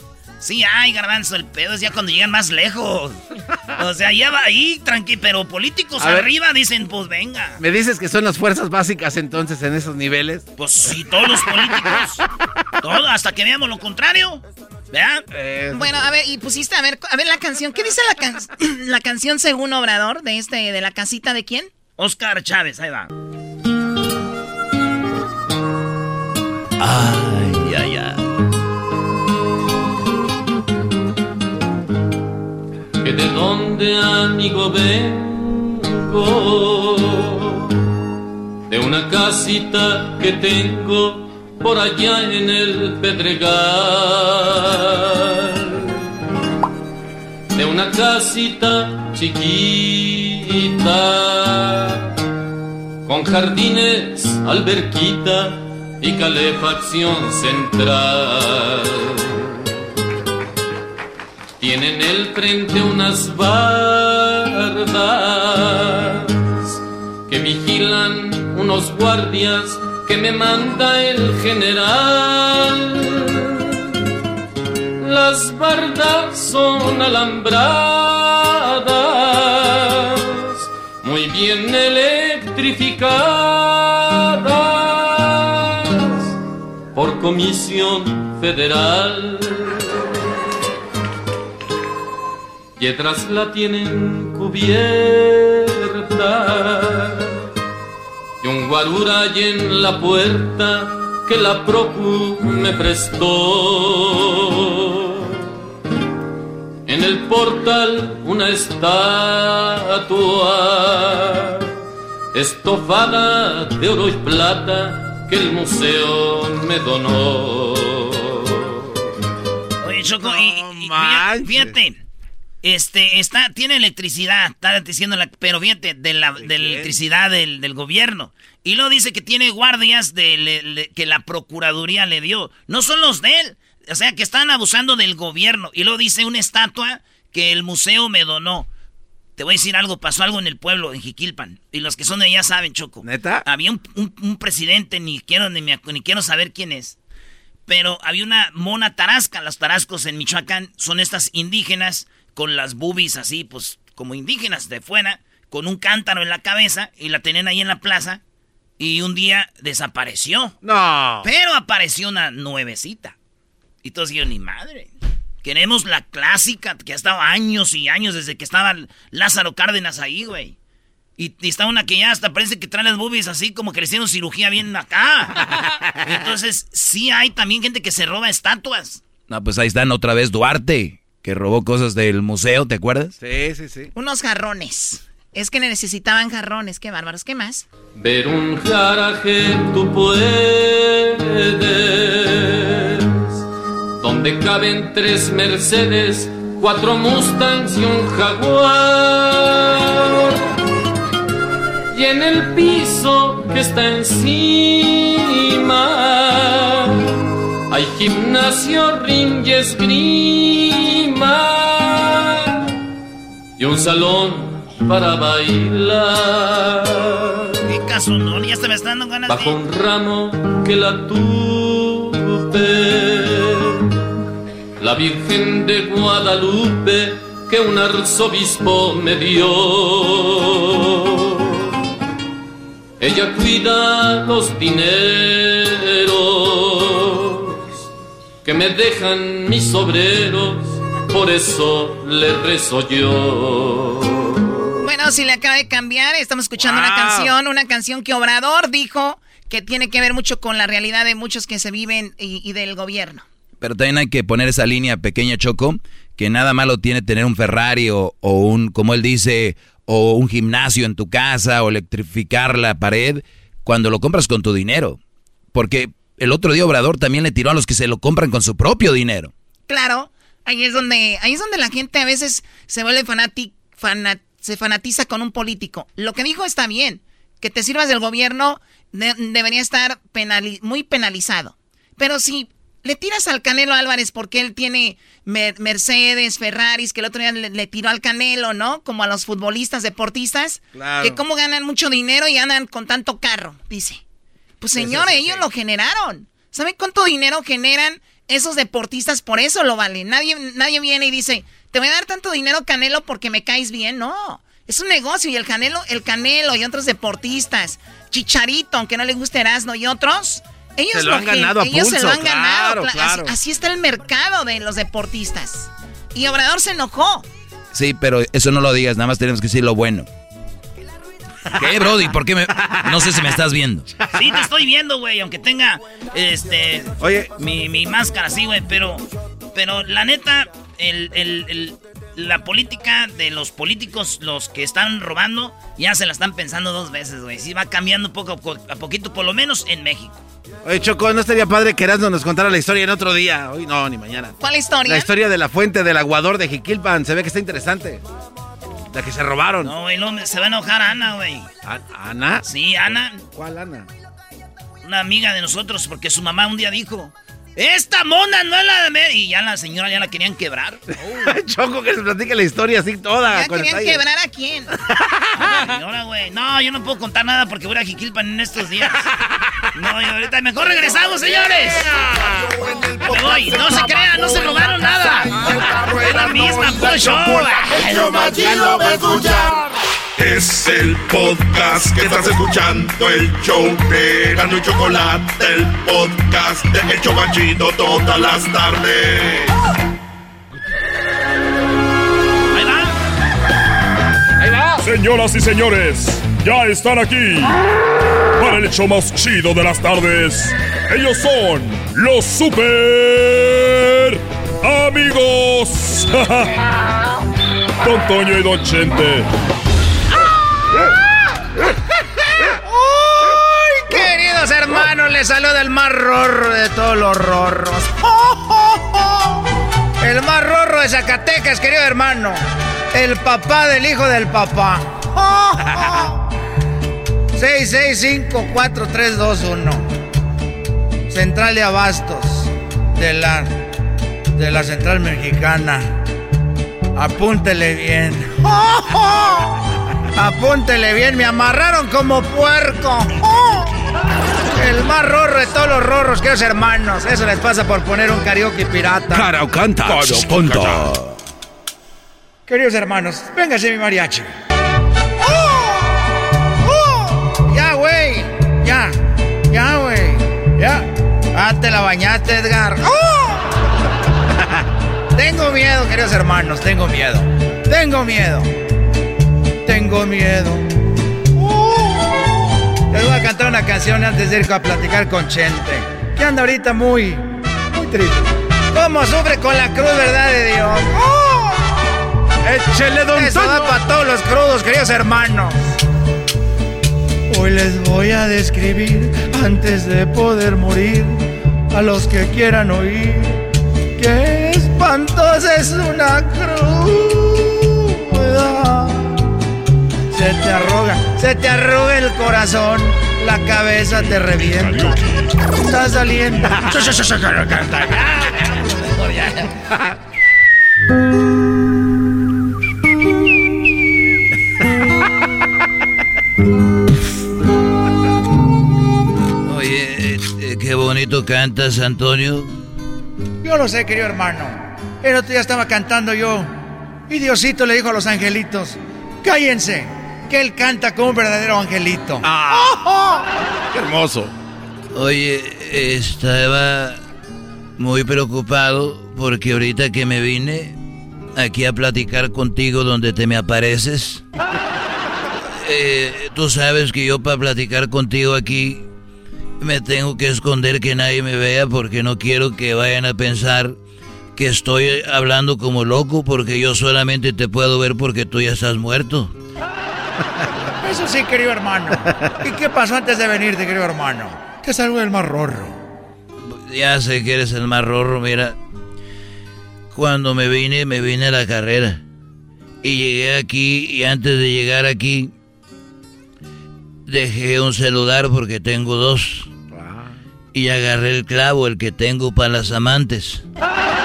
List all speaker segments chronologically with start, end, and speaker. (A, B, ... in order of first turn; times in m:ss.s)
0:00.4-0:03.2 A
0:03.8-0:07.6 A
0:06.0-0:06.3 B
0:07.6-0:10.4 B
0:10.6-0:12.2 A
0:12.8-0:15.2 A
0:15.3-0:16.0 B
0:15.7-0:21.7 C
0:22.0-0:23.1 A
0:33.0-0:37.7 D
0:38.7-0:45.9 D
0:47.5-0:52.0 D
0:53.0-0:59.5 D
1:01.6-1:06.8 D
1:07.3-1:13.9 D
1:15.0-1:26.3 D
1:26.9-1:29.9 D
1:32.8-1:37.4 D
1:38.4-1:45.4 D
1:46.8-1:51.7 D
1:52.3-1:58.7 D
1:59.8-2:02.0 A
2:00.2-2:01.7 B
2:02.6-2:18.7 A
2:06.4-2:06.9 B
2:19.4-2:27.0 A
2:23.0-2:23.4 B
2:27.7-2:38.2 A
2:38.8-2:40.5 A
2:40.6-2:41.3 B
2:41.2-2:43.1 A
2:43.8-2:44.9 A
2:45.4-2:50.5 A
2:51.2-2:55.5 A
2:56.0-2:59.0 A
2:59.3-3:03.1 E
3:03.2-3:03.9 B
3:03.9-3:07.6 C
3:07.9-3:13.3 D
3:14.0-3:20.3 D
3:21.9-3:27.1 D
3:27.7-3:32.6 D
3:33.6-3:37.5 D
3:37.6-3:39.6 A
3:39.3-3:43.9 D
3:44.8-3:51.6 D
3:53.0-3:57.6 D
3:58.4-4:04.4 D
4:04.8-4:13.2 C
4:06.6-4:07.3 B
4:13.6-4:25.0 E
4:25.5-4:29.3 E
4:29.7-4:54.0 C
4:50.7-4:51.2 B
4:54.6-5:17.3 C
4:54.7-4:55.4 B
5:10.9-5:13.3 B
5:17.7-5:20.1 E
5:21.6-5:23.9 E
5:24.1-5:40.2 A
5:27.0-5:27.3 B
5:40.6-5:48.0 B
5:44.4-5:45.1 C
5:48.9-5:49.7 B
5:49.6-5:51.5 A
5:51.6-5:52.4 B
5:52.4-5:53.2 A
5:53.3-5:53.9 B
5:54.8-6:00.8 A
6:01.1-6:04.0 B
6:03.3-6:04.7 C
6:05.4-6:09.0 A
6:09.7-6:11.9 A
6:11.8-6:12.4 B
6:12.3-6:19.6 F
6:13.1-6:15.4 A
6:16.0-6:18.3 A
6:20.2-6:29.5 F
6:32.5-6:32.9 A
6:34.4-6:34.7 B
6:34.8-6:37.6 G
6:38.4-6:46.5 G
6:47.8-6:49.2 G
6:52.5-6:59.1 H
7:00.0-7:02.4 H
7:02.9-7:06.1 H
7:07.3-7:09.9 H
7:11.1-7:13.5 H
7:14.3-7:16.0 H
7:16.9-7:19.5 H
7:20.1-7:23.7 H
7:24.5-7:29.3 H
7:29.1-7:31.0 B
7:29.9-7:30.6 H
7:32.5-7:34.3 H
7:35.2-7:35.9 H
7:36.6-7:39.0 H
7:39.5-7:43.4 H
7:45.1-7:48.5 H
7:49.6-7:50.7 H
7:51.4-7:52.3 H
7:52.9-7:57.2 H
7:57.7-7:58.2 H
7:58.7-8:01.5 H
8:02.4-8:03.7 B
8:03.1-8:05.6 H
8:07.3-8:13.4 H
8:14.0-8:19.1 H
8:20.1-8:25.0 H
8:25.6-8:28.0 H
8:28.1-8:29.4 A
8:39.4-8:42.5 I
8:43.4-8:46.5 H
8:47.1-8:53.2 H
8:52.2-8:52.9 B
8:53.7-8:54.3 B
8:54.9-8:57.0 I
8:57.8-9:00.8 I
9:01.4-9:04.2 I
9:05.6-9:08.8 I
9:09.6-9:13.8 I
9:14.4-9:19.3 I
9:20.8-9:25.8 H
9:26.5-9:28.6 I
9:29.9-9:32.0 I
9:32.8-9:35.3 I
9:37.1-9:39.5 I
9:39.7-9:40.1 B
9:40.5-9:43.4 I